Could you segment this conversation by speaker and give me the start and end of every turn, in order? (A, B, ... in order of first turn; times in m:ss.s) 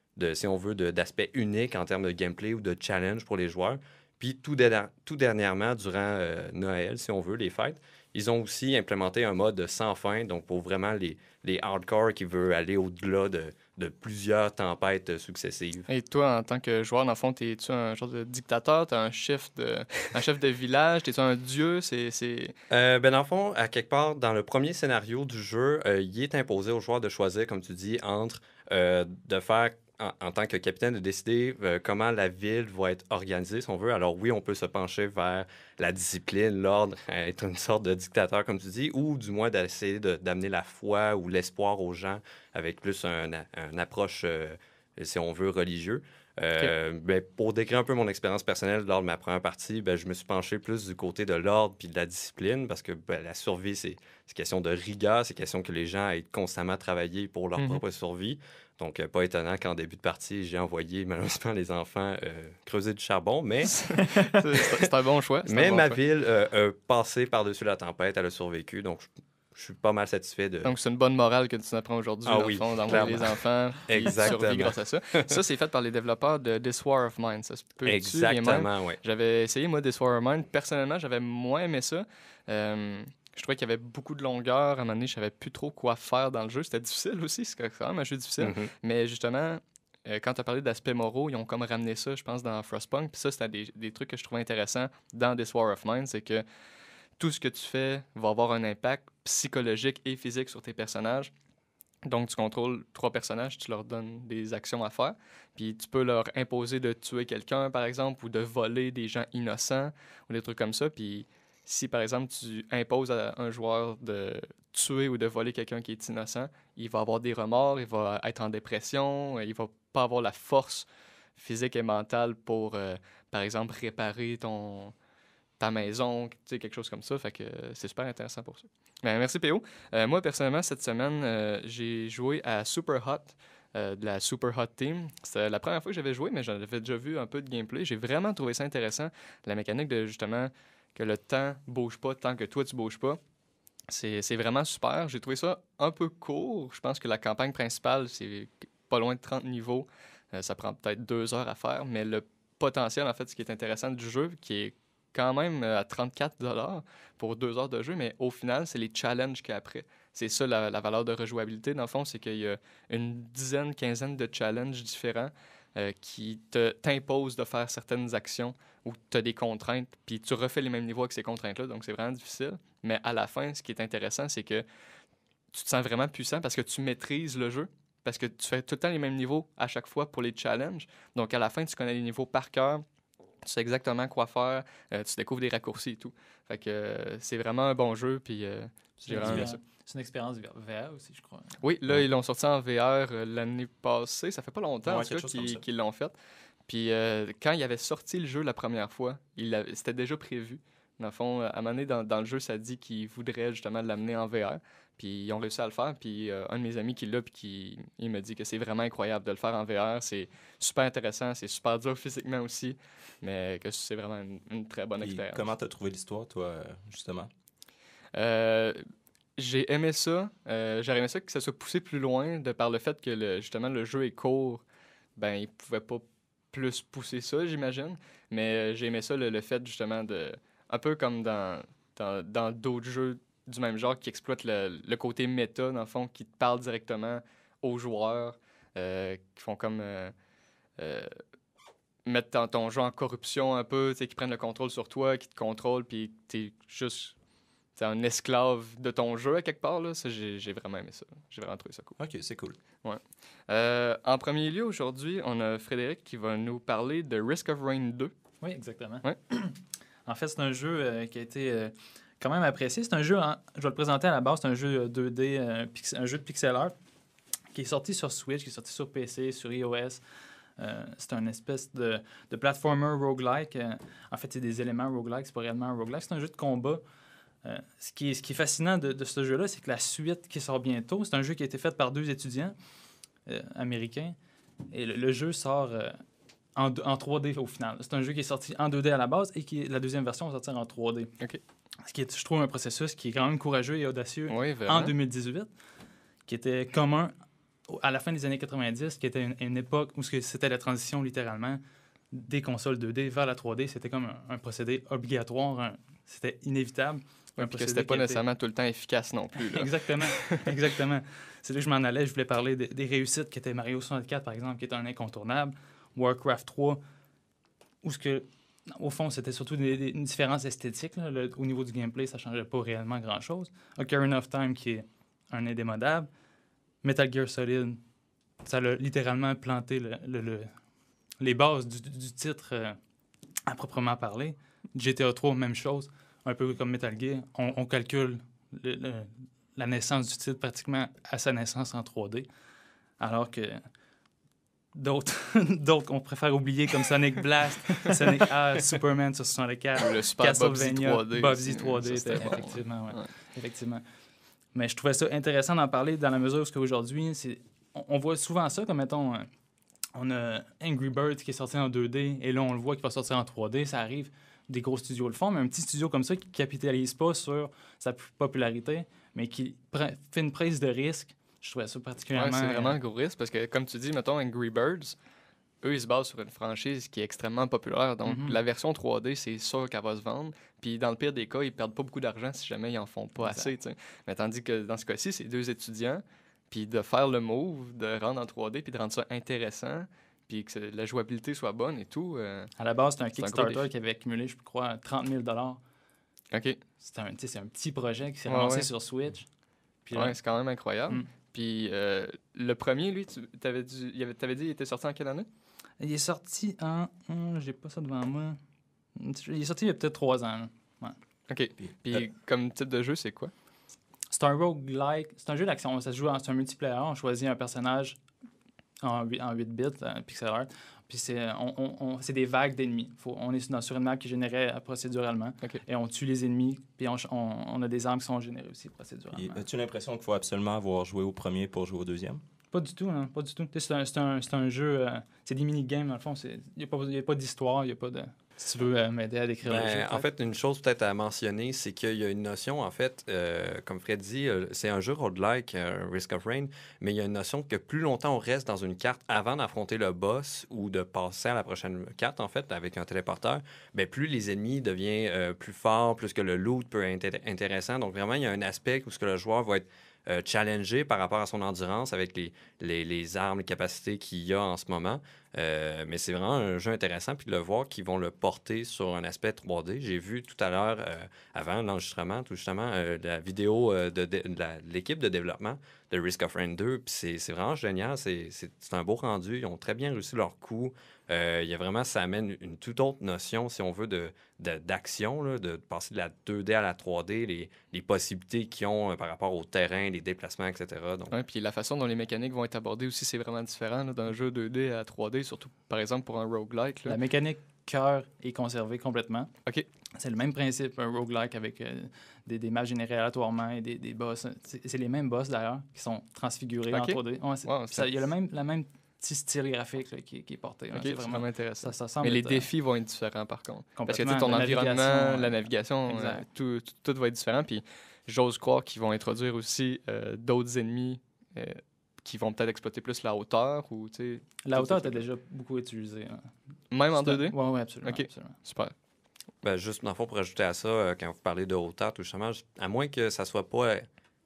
0:00.2-0:15.9 A
0:15.9-0:22.6 B
0:22.7-1:03.8 A
1:03.7-1:06.0 B
1:05.5-1:10.7 A
1:10.6-1:36.4 B
1:12.3-1:15.3 A
1:17.9-1:19.0 A
1:28.4-1:28.7 A
1:37.2-1:41.3 B
1:42.0-2:05.0 B
2:05.6-2:23.2 B
2:23.9-2:54.6 B
2:55.5-3:02.8 B
3:03.4-3:09.6 B
3:09.0-3:11.5 C
3:09.2-3:09.5 D
3:11.6-3:16.1 B
3:14.8-3:15.6 D
3:16.7-3:35.4 B
3:35.0-3:37.3 D
3:38.1-3:38.8 B
3:39.4-3:44.6 B
3:45.2-4:00.2 B
4:00.8-4:01.2 B
4:02.1-4:07.2 B
4:07.8-4:12.0 B
4:12.0-4:12.6 D
4:12.8-4:18.1 B
4:18.4-4:26.7 C
4:27.5-4:30.0 C
4:30.6-4:36.8 C
4:37.4-4:42.6 C
4:43.3-4:44.2 C
4:44.7-4:46.0 C
4:46.6-4:51.2 C
4:51.8-4:55.5 C
4:54.3-4:55.0 B
4:56.3-4:57.1 C
4:57.7-5:08.2 C
5:07.4-5:10.5 B
5:09.4-5:16.8 C
5:17.8-5:26.1 C
5:26.8-5:27.8 C
5:28.4-5:30.5 C
5:31.2-5:32.8 C
5:33.5-5:42.3 C
5:43.0-5:43.7 C
5:44.7-5:53.8 C
5:49.8-5:53.1 B
5:54.5-5:59.3 C
6:00.0-6:12.8 C
6:12.1-6:15.0 B
6:15.6-6:32.5 B
6:18.0-6:18.4 C
6:23.2-6:23.5 C
6:32.6-6:35.6 C
6:33.2-6:33.7 B
6:36.3-6:36.6 B
6:36.8-6:39.3 C
6:38.3-6:38.7 B
6:39.9-6:40.2 C
6:39.9-6:45.3 B
6:45.8-6:48.4 C
6:49.0-6:51.0 C
6:51.3-6:53.3 B
6:54.1-6:58.0 C
6:58.8-7:09.4 C
7:09.1-7:12.2 D
7:12.5-7:20.1 C
7:19.4-8:11.1 A
8:11.1-8:17.0 B
8:16.9-8:19.3 C
8:20.0-8:32.5 C
8:26.7-8:27.9 B
8:30.7-8:45.0 B
8:33.8-8:36.3 C
8:44.4-8:46.3 C
8:46.7-8:48.7 B
8:46.9-8:48.4 C
8:49.4-8:53.9 A